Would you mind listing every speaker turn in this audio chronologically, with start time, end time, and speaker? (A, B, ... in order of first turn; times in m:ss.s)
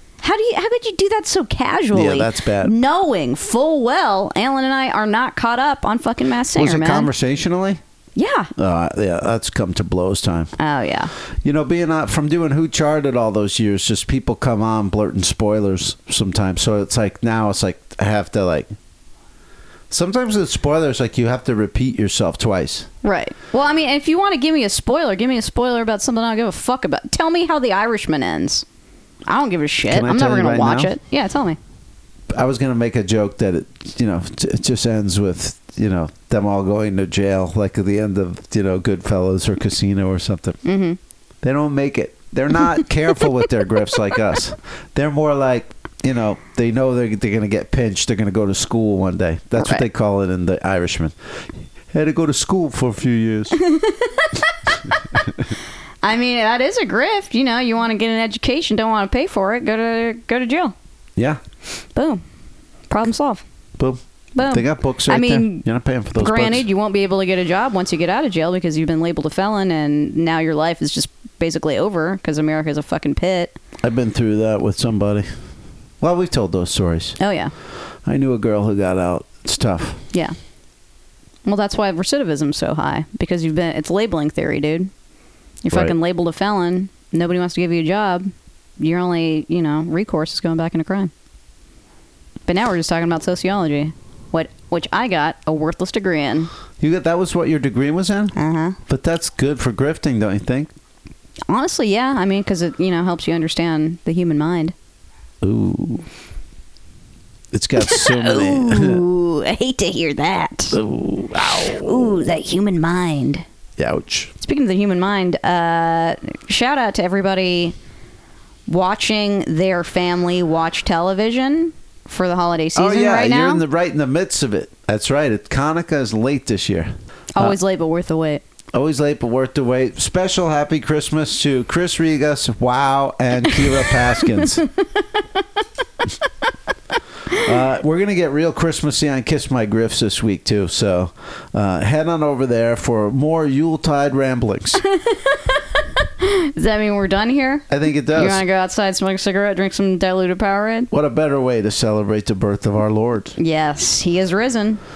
0:00.2-0:07.1 A
0:01.9-0:02.7 B
0:06.5-0:07.8 B
0:08.2-0:08.5 A
0:08.6-0:10.5 B
0:10.6-0:11.1 A
0:11.4-0:18.7 B
0:19.9-0:22.9 B
0:23.0-0:28.6 A
0:29.2-0:31.6 A
0:29.9-0:30.9 B
0:32.3-0:40.6 B
0:40.6-0:41.0 A
0:41.4-0:53.6 B
0:49.6-0:49.8 A
0:53.6-0:54.5 A
0:56.0-1:00.7 A
1:01.9-1:02.2 A
1:02.9-1:03.4 A
1:03.8-1:06.6 B
1:04.3-1:05.6 A
1:06.2-1:13.6 A
1:13.8-1:15.2 B
1:16.0-1:17.2 B
1:17.2-1:17.5 A
1:18.0-1:20.0 B
1:21.4-1:24.9 A
1:25.6-1:31.1 A
1:32.5-1:36.5 A
1:36.8-1:38.3 B
1:38.3-1:38.8 A
1:38.9-1:40.7 B
1:41.5-1:44.7 A
1:45.4-1:46.0 B
1:47.5-1:49.0 B
1:47.8-1:50.8 A
1:50.7-1:52.2 B
1:51.5-1:53.4 A
1:53.8-1:54.3 B
1:54.4-1:57.7 A
1:58.7-2:03.6 A
2:02.7-2:07.6 B
2:07.3-2:08.4 A
2:08.7-2:14.6 B
2:14.6-2:14.8 A
2:17.3-2:24.8 B
2:24.9-2:30.9 A
2:27.7-2:28.4 B
2:30.9-2:33.4 B
2:33.4-2:34.8 A